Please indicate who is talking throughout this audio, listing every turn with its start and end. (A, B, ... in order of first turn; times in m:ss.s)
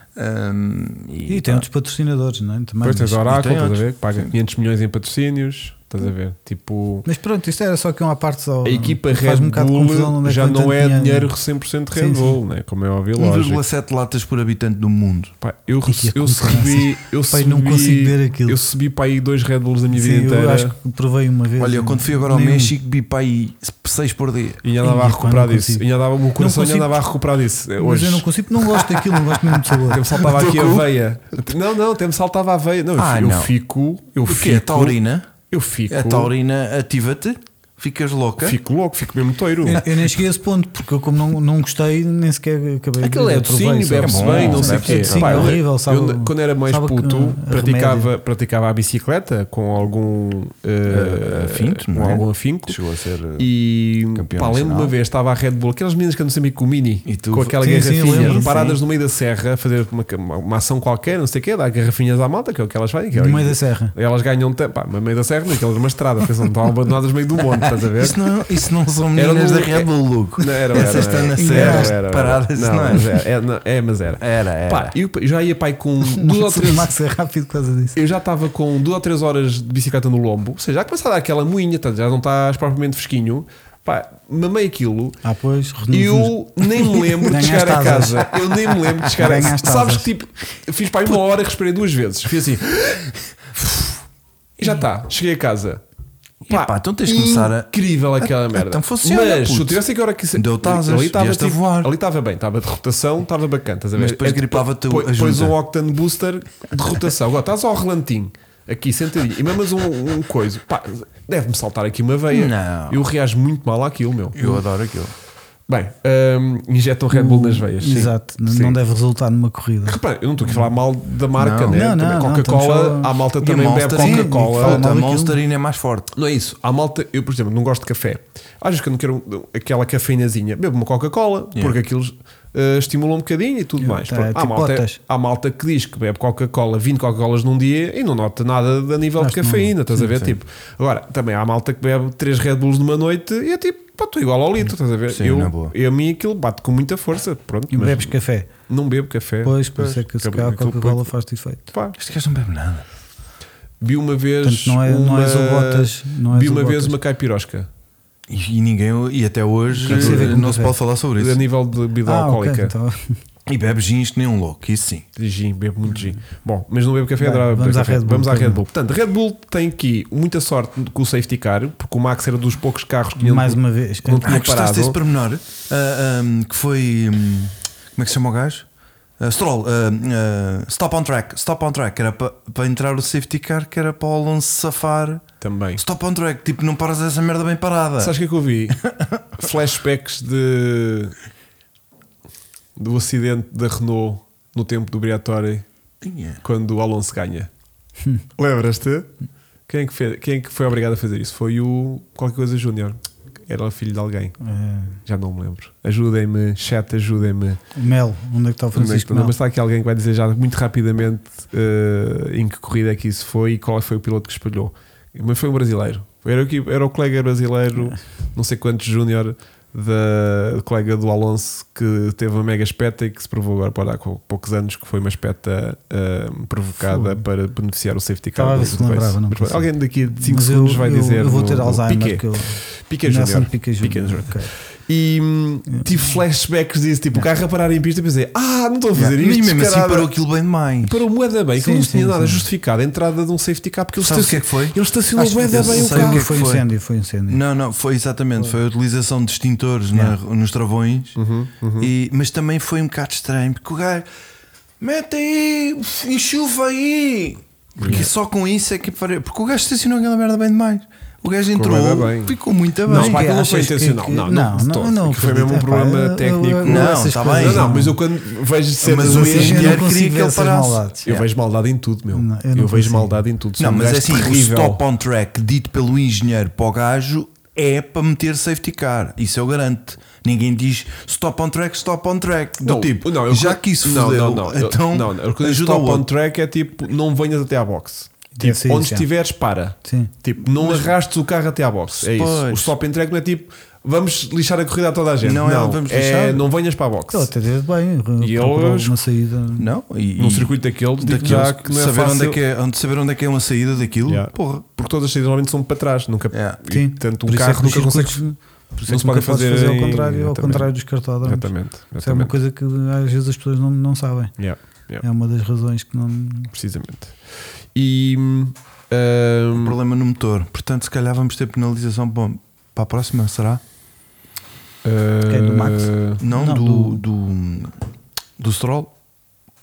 0:00.2-0:01.6 A
0:01.3-0:03.2 B
0:02.8-0:07.0 C
0:03.3-0:04.3 A
0:07.0-0:11.3 B
0:08.6-0:13.6 C
0:11.9-0:12.4 B
0:13.2-0:15.3 A
0:15.4-0:20.7 C
0:15.8-0:18.6 B
0:19.9-0:22.7 B
0:21.6-0:24.6 A
0:24.6-0:28.2 C
0:24.8-0:25.8 B
0:26.4-0:27.0 B
0:27.8-0:30.0 B
0:29.7-0:30.9 A
0:29.9-0:35.0 C
0:33.0-0:33.5 A
0:34.2-0:35.3 A
0:35.5-0:36.3 C
0:35.9-0:38.6 A
0:38.4-0:39.8 C
0:39.6-0:48.1 B
0:43.0-0:52.8 C
0:44.0-0:45.6 A
0:50.8-0:53.5 A
0:53.4-1:08.2 C
0:54.1-0:54.9 A
0:57.0-0:58.8 A
0:57.6-0:58.5 B
1:03.1-1:03.9 B
1:07.6-1:13.2 A
1:09.1-1:16.9 C
1:10.8-1:12.0 B
1:14.2-1:15.0 A
1:16.0-1:18.0 B
1:17.9-1:25.2 C
1:25.2-1:26.3 B
1:25.9-1:33.9 C
1:27.2-1:28.3 B
1:29.1-1:30.1 B
1:34.6-1:35.8 C
1:36.5-1:54.5 C
1:36.5-1:37.7 A
1:38.2-1:39.8 A
1:40.3-1:41.9 A
1:43.9-1:45.6 A
1:52.3-1:53.0 A
1:54.3-1:55.1 A
1:55.7-1:58.8 C
1:57.1-2:00.7 B
1:59.8-2:04.8 C
2:01.4-2:01.8 A
2:01.7-2:03.2 B
2:03.4-2:06.1 A
2:03.9-2:05.4 B
2:06.1-2:28.1 C
2:13.8-2:15.0 B
2:19.2-2:20.1 B
2:25.1-2:25.7 A
2:27.7-2:28.5 B
2:28.7-2:31.1 C
2:29.4-2:31.7 B
2:32.0-2:32.8 A
2:33.8-2:37.7 C
2:34.4-2:37.0 B
2:38.3-2:41.4 A
2:39.8-2:40.7 B
2:39.8-2:40.4 C
2:41.2-2:42.7 C
2:42.0-2:43.2 B
2:43.5-2:45.0 A
2:45.2-2:55.0 C
2:47.2-2:48.6 B
2:53.2-2:54.4 B
2:54.2-2:58.6 A
2:59.2-3:05.2 A
3:05.4-3:05.8 C
3:05.8-3:08.1 A
3:08.0-3:08.8 C
3:08.7-3:09.3 A
3:09.4-3:11.1 C
3:12.8-3:15.6 C
3:16.0-3:16.4 A
3:16.4-3:17.5 C
3:18.4-3:19.1 C
3:19.7-3:24.4 C
3:24.4-3:25.0 B
3:25.0-3:27.6 C
3:27.7-3:29.3 B
3:28.7-4:00.1 C
3:46.8-3:47.2 B
3:48.4-3:54.5 B
3:55.7-3:56.0 B
3:58.9-4:01.0 A
4:00.8-4:06.3 C
4:01.6-4:02.5 B
4:04.0-4:06.6 A
4:05.2-4:07.4 B
4:07.3-4:11.2 A
4:11.2-4:11.9 C
4:11.8-4:14.0 A
4:14.8-4:23.3 A
4:17.8-4:18.1 C
4:21.5-4:22.4 C
4:22.9-4:28.0 B
4:22.9-4:29.8 C
4:26.6-4:27.8 A
4:28.8-4:31.2 A
4:28.9-4:31.1 B
4:31.0-4:34.8 C
4:32.1-4:33.2 B
4:33.6-4:46.1 A
4:42.6-4:57.3 C
4:48.3-4:49.1 B
4:49.8-4:50.9 B
4:51.9-4:52.7 A
4:55.2-4:56.4 A
4:57.1-4:59.7 B
4:58.2-4:59.0 C
4:59.6-5:04.7 A
5:00.2-5:02.4 C
5:01.1-5:01.4 B
5:04.0-5:08.2 C
5:06.3-5:06.6 A
5:06.7-5:14.3 B
5:08.9-5:10.7 C
5:11.2-5:12.3 C
5:14.4-5:15.0 C
5:15.0-5:16.5 B
5:16.5-5:17.2 C
5:17.7-5:19.8 C
5:19.5-5:23.6 A
5:24.8-5:26.2 C
5:25.3-5:27.0 B
5:26.2-5:27.8 A
5:28.4-5:28.9 A